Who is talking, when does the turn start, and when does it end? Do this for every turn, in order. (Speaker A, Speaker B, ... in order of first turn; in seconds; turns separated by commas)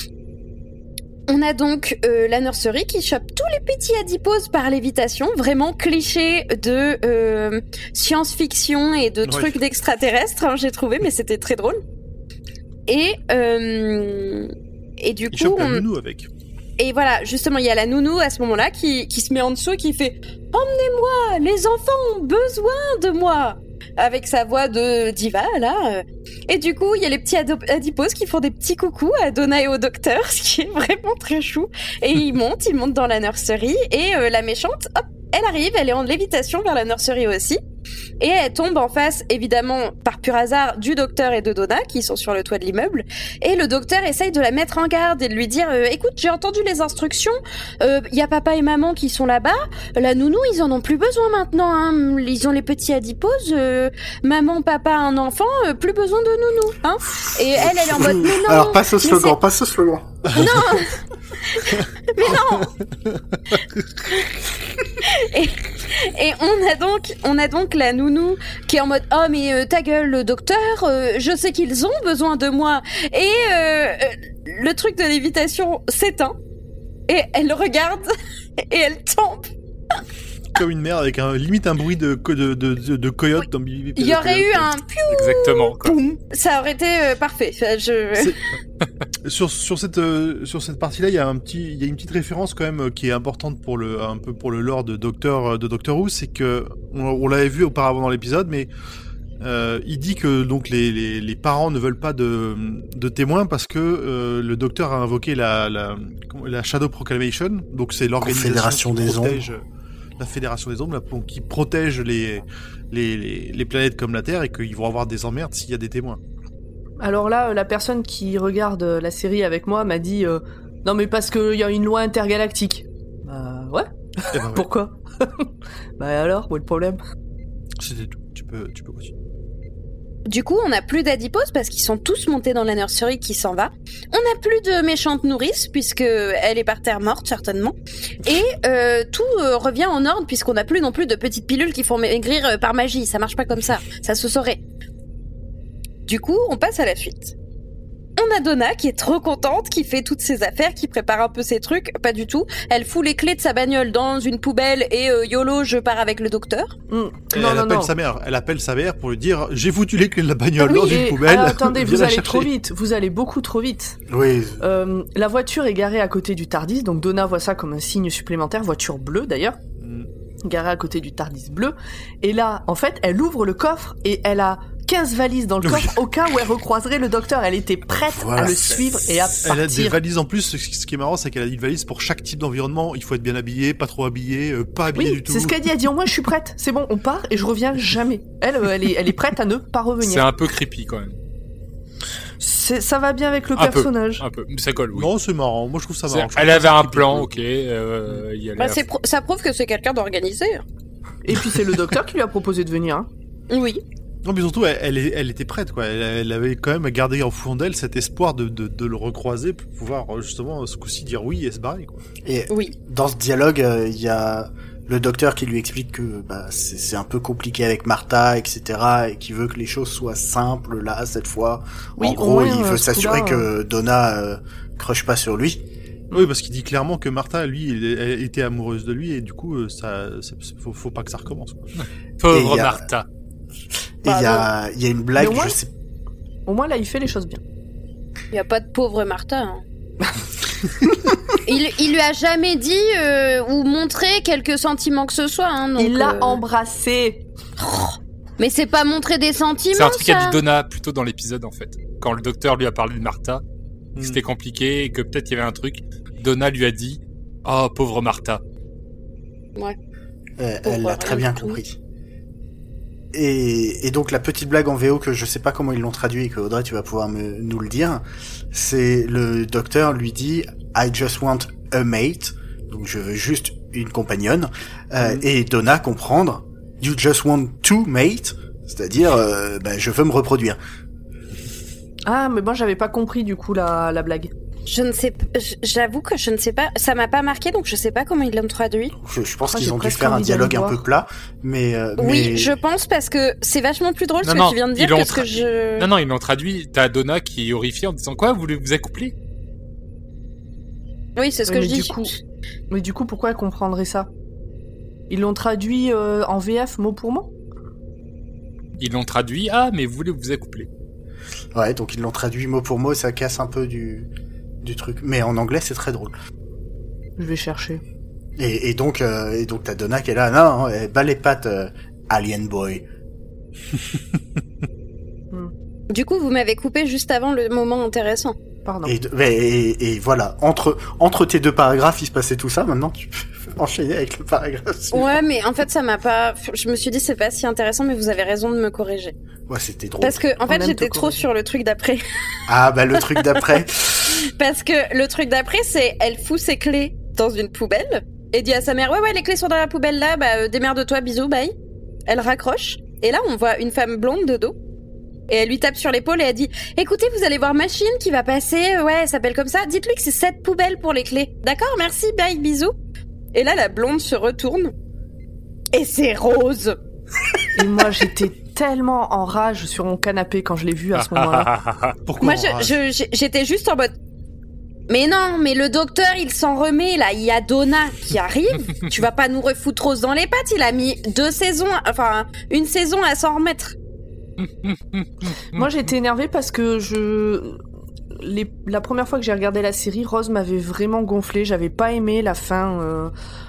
Speaker A: 1.3-11.8, Speaker B: 9.2-9.6, Speaker A: 12.9-15.8, Speaker B: 15.3-16.3, Speaker A: 16.8-37.6, Speaker A: 38.2-59.4, Speaker C: 57.7-60.5, Speaker A: 60.3-62.7, Speaker B: 60.3-60.6, Speaker B: 62.8-63.8, Speaker A: 65.0-76.4, Speaker A: 77.1-79.5, Speaker B: 80.5-84.7, Speaker A: 84.0-88.3, Speaker D: 85.1-86.0, Speaker B: 89.2-98.7, Speaker B: 99.4-109.6, Speaker C: 108.2-109.4, Speaker B: 110.2-116.2, Speaker E: 117.0-127.0, Speaker B: 124.3-124.7, Speaker B: 127.8-129.1, Speaker A: 130.3-144.6, Speaker A: 146.1-147.3, Speaker A: 148.2-156.8, Speaker E: 156.9-157.9, Speaker B: 157.3-162.5, Speaker E: 160.6-164.0, Speaker C: 164.1-164.6, Speaker E: 164.6-169.6, Speaker B: 169.8-170.1, Speaker E: 170.4-180.0, Speaker B: 175.6-176.0, Speaker C: 178.1-179.1, Speaker B: 179.4-185.6, Speaker E: 184.9-190.3, Speaker D: 190.0-191.2, Speaker E: 192.4-194.2, Speaker D: 193.6-195.1, Speaker B: 194.9-197.3, Speaker D: 196.1-198.8, Speaker A: 198.6-200.6, Speaker E: 201.2-203.1, Speaker A: 203.5-203.8, Speaker B: 204.2-212.1, Speaker C: 212.2-225.6, Speaker A: 212.5-212.8, Speaker E: 222.0-223.5, Speaker B: 226.1-231.7, Speaker D: 232.2-233.1, Speaker C: 232.3-232.8, Speaker C: 234.0-235.7, Speaker A: 234.1-234.5, Speaker E: 235.2-235.6, Speaker E: 236.5-237.4, Speaker A: 238.3-239.6, Speaker A: 241.4-246.4, Speaker E: 245.8-247.2, Speaker A: 247.6-250.4, Speaker D: 249.7-253.4, Speaker B: 254.0-254.2, Speaker D: 254.0-258.4, Speaker C: 260.4-261.8, Speaker A: 260.6-261.6, Speaker C: 263.1-280.6, Speaker E: 282.1-284.3, Speaker A: 284.7-288.9, Speaker C: 289.0-292.6, Speaker E: 289.5-290.8, Speaker A: 292.0-295.9, Speaker D: 294.2-299.1, Speaker A: 301.2-302.1, Speaker E: 301.5-302.2, Speaker E: 302.7-304.1, Speaker E: 305.1-307.3, Speaker D: 308.8-310.7, Speaker C: 311.6-314.1, Speaker C: 314.6-316.1, Speaker E: 317.2-317.8, Speaker C: 318.4-322.9, Speaker A: 325.9-328.4, Speaker E: 328.7-328.9, Speaker C: 328.9-335.2, Speaker A: 334.9-339.1, Speaker C: 339.5-340.2, Speaker A: 340.0-342.0, Speaker E: 340.5-341.3, Speaker C: 342.5-344.2, Speaker A: 343.1-343.4, Speaker A: 344.1-351.5, Speaker A: 352.1-354.6, Speaker A: 355.3-362.7, Speaker A: 363.3-364.7, Speaker A: 365.7-366.8, Speaker E: 367.6-371.5, Speaker D: 370.9-372.0, Speaker B: 372.1-372.8, Speaker A: 372.2-373.9, Speaker A: 374.9-383.8, Speaker D: 384.6-385.1, Speaker E: 385.5-387.6, Speaker E: 388.1-393.1